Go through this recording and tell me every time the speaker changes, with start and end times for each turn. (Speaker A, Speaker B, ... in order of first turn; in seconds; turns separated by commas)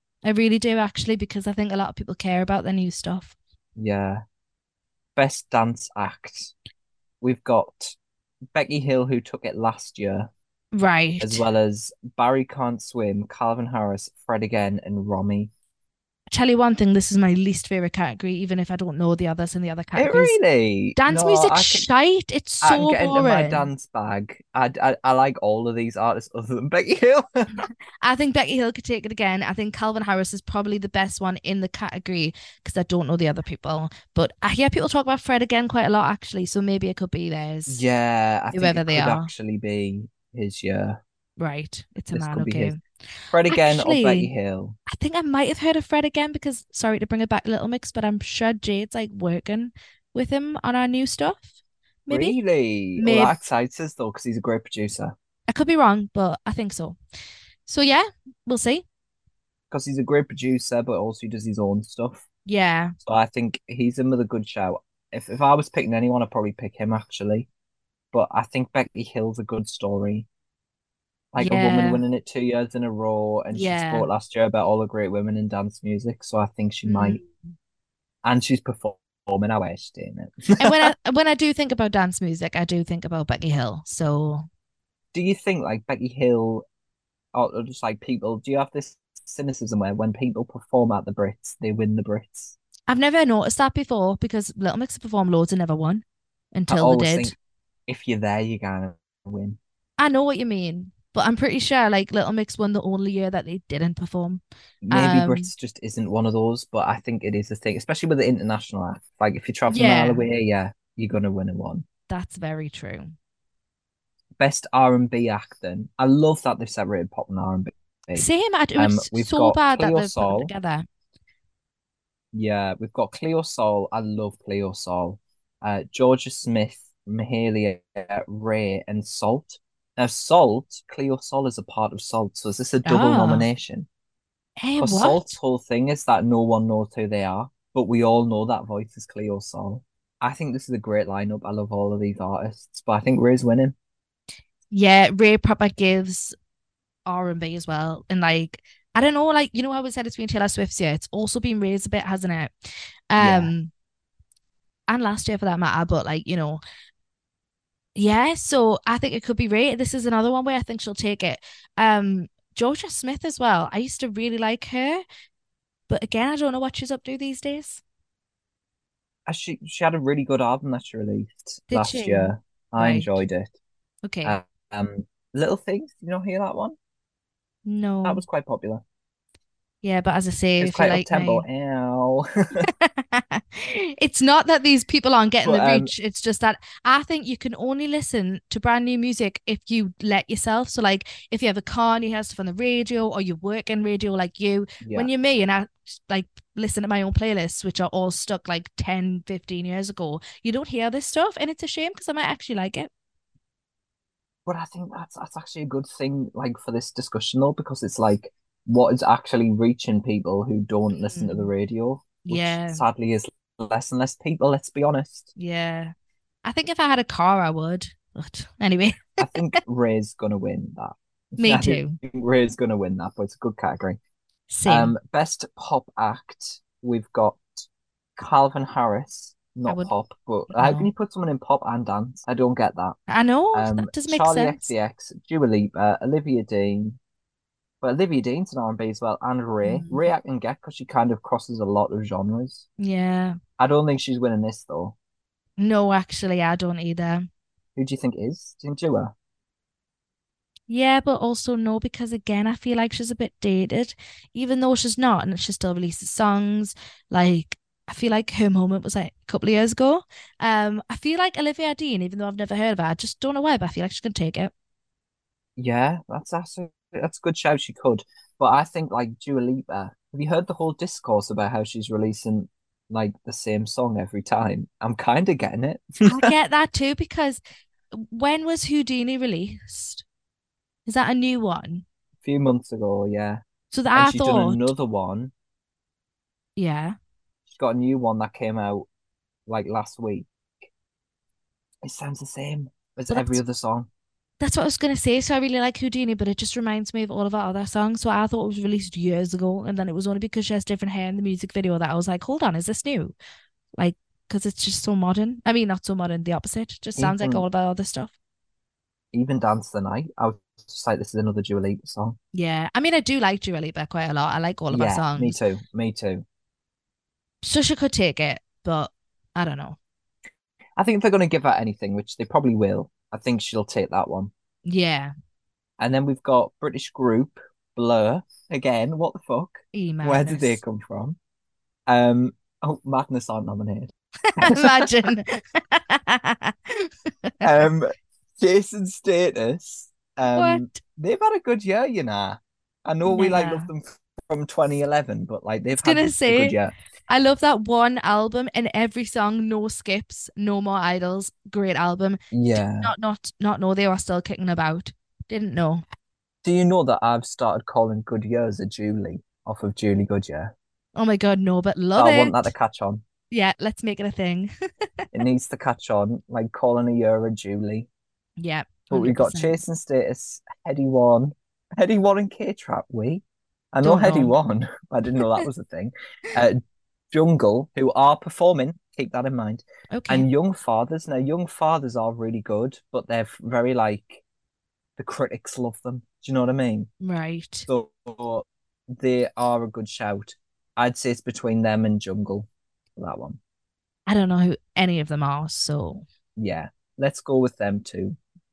Speaker A: 0.2-3.3, Speaker B: 3.8-4.2, Speaker B: 5.2-6.5, Speaker B: 7.2-8.0, Speaker B: 8.5-10.3, Speaker A: 10.7-11.4, Speaker B: 11.2-15.5, Speaker A: 16.3-20.4, Speaker B: 19.9-21.9, Speaker A: 20.9-23.7, Speaker B: 22.6-27.7, Speaker A: 28.0-37.8, Speaker B: 37.7-41.0, Speaker A: 38.5-39.3, Speaker A: 41.4-42.8, Speaker B: 42.1-42.7, Speaker B: 43.3-44.8, Speaker A: 43.5-44.3, Speaker A: 44.9-51.5, Speaker A: 52.0-52.4, Speaker B: 52.1-55.1, Speaker A: 53.0-53.4, Speaker A: 55.5-57.0, Speaker A: 57.6-58.8, Speaker B: 59.7-62.2, Speaker A: 62.5-63.0, Speaker B: 63.0-67.5, Speaker B: 68.1-70.3, Speaker B: 71.3-77.2, Speaker A: 71.4-72.0, Speaker A: 73.5-74.1, Speaker A: 76.9-77.4, Speaker B: 78.2-80.9, Speaker A: 80.6-84.5, Speaker B: 85.1-86.7, Speaker B: 87.3-92.5, Speaker A: 92.9-97.3, Speaker B: 96.7-97.3, Speaker B: 97.9-99.6, Speaker A: 100.0-105.5, Speaker B: 104.8-111.8, Speaker A: 109.7-110.3, Speaker A: 112.1-113.1, Speaker B: 114.4-118.3, Speaker A: 118.1-120.9, Speaker B: 118.8-120.5, Speaker B: 122.3-133.9, Speaker A: 132.8-133.4, Speaker A: 134.6-135.3, Speaker B: 134.8-143.7, Speaker A: 144.7-146.3, Speaker A: 147.1-152.5, Speaker A: 153.1-153.7, Speaker B: 153.2-153.5, Speaker A: 154.9-156.6, Speaker A: 157.9-165.0, Speaker A: 165.9-167.8, Speaker B: 169.3-173.5, Speaker A: 171.7-173.1, Speaker A: 174.1-174.4, Speaker B: 174.2-176.8, Speaker A: 177.7-178.2, Speaker B: 178.0-178.8, Speaker A: 179.8-181.4, Speaker B: 180.6-182.7, Speaker A: 182.6-202.9, Speaker B: 185.4-185.9, Speaker B: 194.8-195.1, Speaker B: 204.4-215.3, Speaker A: 210.9-211.5, Speaker A: 212.2-212.8, Speaker A: 215.4-215.9, Speaker A: 216.4-219.4, Speaker B: 219.2-224.0, Speaker A: 221.4-222.0, Speaker A: 224.5-224.9, Speaker B: 224.7-233.0, Speaker A: 229.7-229.9, Speaker A: 230.5-230.9, Speaker A: 233.1-234.7, Speaker B: 233.5-237.0, Speaker B: 237.8-242.6, Speaker A: 239.6-240.1, Speaker A: 242.8-243.4, Speaker B: 243.6-244.9, Speaker A: 245.6-247.3, Speaker B: 247.8-249.1, Speaker A: 250.7-264.5, Speaker B: 265.6-276.3, Speaker A: 276.1-277.4, Speaker A: 277.9-280.0, Speaker A: 280.9-281.8, Speaker B: 282.2-283.4, Speaker A: 283.7-284.7, Speaker B: 283.9-285.3, Speaker A: 286.6-286.9, Speaker B: 287.5-288.9, Speaker B: 289.5-290.7, Speaker B: 291.8-293.9, Speaker A: 293.1-293.4, Speaker A: 294.4-303.1, Speaker A: 303.8-308.1, Speaker B: 306.9-307.4, Speaker B: 309.1-312.2, Speaker A: 312.3-315.4, Speaker B: 314.7-316.2, Speaker A: 317.4-319.8, Speaker B: 320.8-324.3, Speaker A: 324.6-325.1, Speaker B: 325.8-331.2, Speaker A: 329.7-330.6, Speaker B: 331.9-334.9, Speaker A: 334.3-337.6, Speaker B: 337.4-346.7, Speaker A: 340.3-340.8, Speaker A: 343.1-343.7, Speaker A: 345.8-346.6, Speaker A: 347.1-355.8, Speaker B: 352.3-352.9, Speaker B: 356.4-360.5, Speaker A: 360.9-362.5, Speaker B: 361.9-363.0, Speaker A: 363.3-364.5, Speaker B: 365.1-367.9, Speaker A: 368.4-369.6, Speaker B: 368.9-376.6, Speaker A: 373.8-374.3, Speaker B: 377.1-384.2, Speaker A: 379.9-380.3, Speaker B: 385.0-386.9, Speaker A: 387.0-387.7, Speaker B: 387.7-393.4, Speaker A: 394.1-396.1, Speaker B: 396.4-398.2